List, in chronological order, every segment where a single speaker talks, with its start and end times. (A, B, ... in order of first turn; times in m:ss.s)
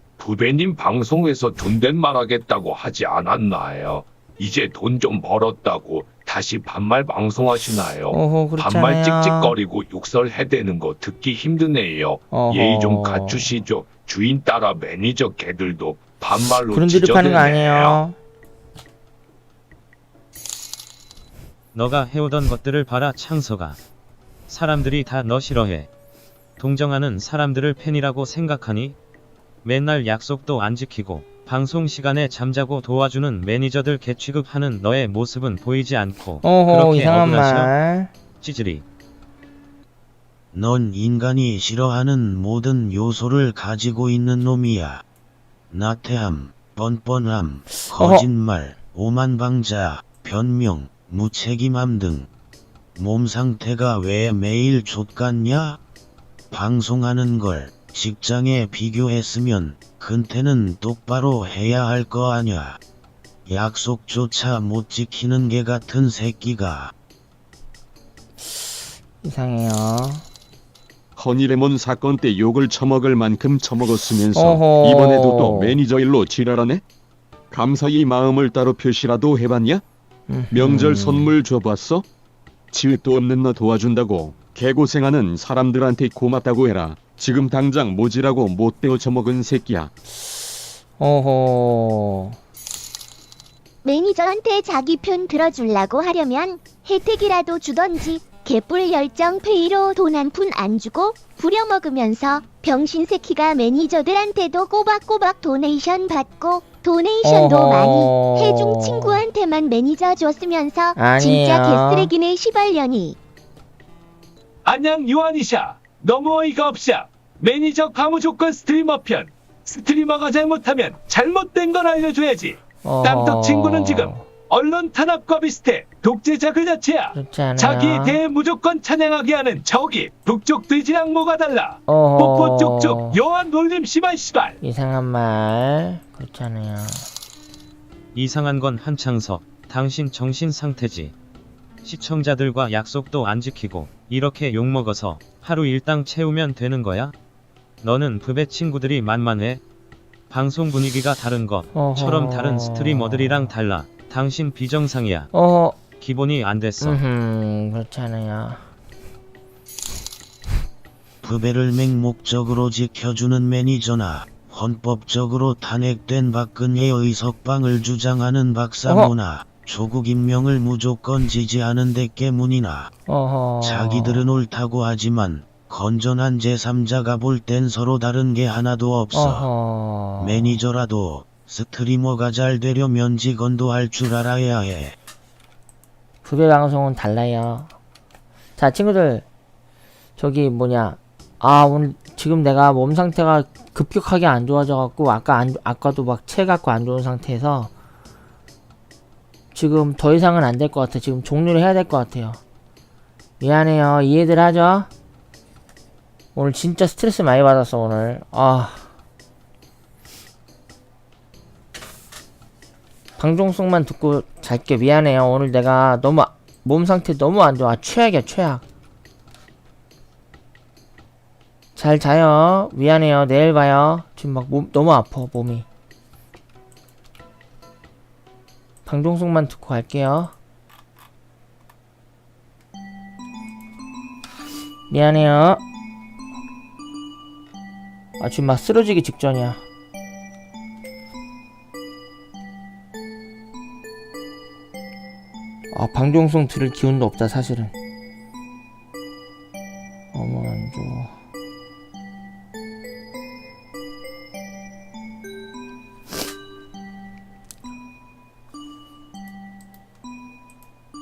0:00.2-0:18.0 A
0:08.1-0:09.5 B
0:12.3-0:13.6 B
0:16.7-0:18.2 B
0:21.7-0:23.8 C
0:24.5-0:25.9 C
0:26.6-0:29.0 C
0:29.6-0:37.7 C
0:36.4-0:38.1 B
0:38.4-0:38.8 C
0:40.5-0:45.0 D
0:45.7-0:52.3 D
0:47.8-0:48.3 B
0:53.0-0:55.8 D
0:56.5-1:02.8 D
1:03.5-1:06.9 D
1:09.2-1:10.2 B
1:11.2-1:16.8 E
1:14.4-1:15.8 B
1:17.5-1:19.8 E
1:20.3-1:21.3 B
1:20.5-1:22.0 E
1:22.7-1:29.9 E
1:31.0-1:32.4 B
1:33.8-1:53.2 F
1:47.2-1:49.2 B
1:51.0-1:52.1 B
1:54.6-2:14.6 A
2:02.8-2:04.2 B
2:07.1-2:08.2 B
2:11.9-2:13.2 B
2:14.6-2:17.1 B
2:18.1-2:21.1 C
2:21.8-2:27.1 C
2:27.8-2:29.6 C
2:30.3-2:35.3 C
2:31.7-2:33.5 B
2:35.3-2:35.8 B
2:36.0-2:37.0 C
2:36.8-2:38.6 B
2:41.2-2:52.9 D
2:48.9-2:49.1 B
2:53.1-2:54.2 B
2:53.6-2:59.5 D
2:59.1-3:00.6 B
3:00.2-3:05.0 D
3:06.2-3:07.7 B
3:08.6-3:09.2 B
3:10.2-3:17.7 B
3:19.5-3:22.4 B
3:23.4-3:24.9 B
3:26.4-3:28.9 B
3:33.2-3:38.6 B
3:41.8-3:45.7 B
3:48.9-3:50.3 B
3:54.9-3:55.6 B
3:58.2-3:59.6 B
4:05.7-4:07.7 B
4:10.1-4:11.1 B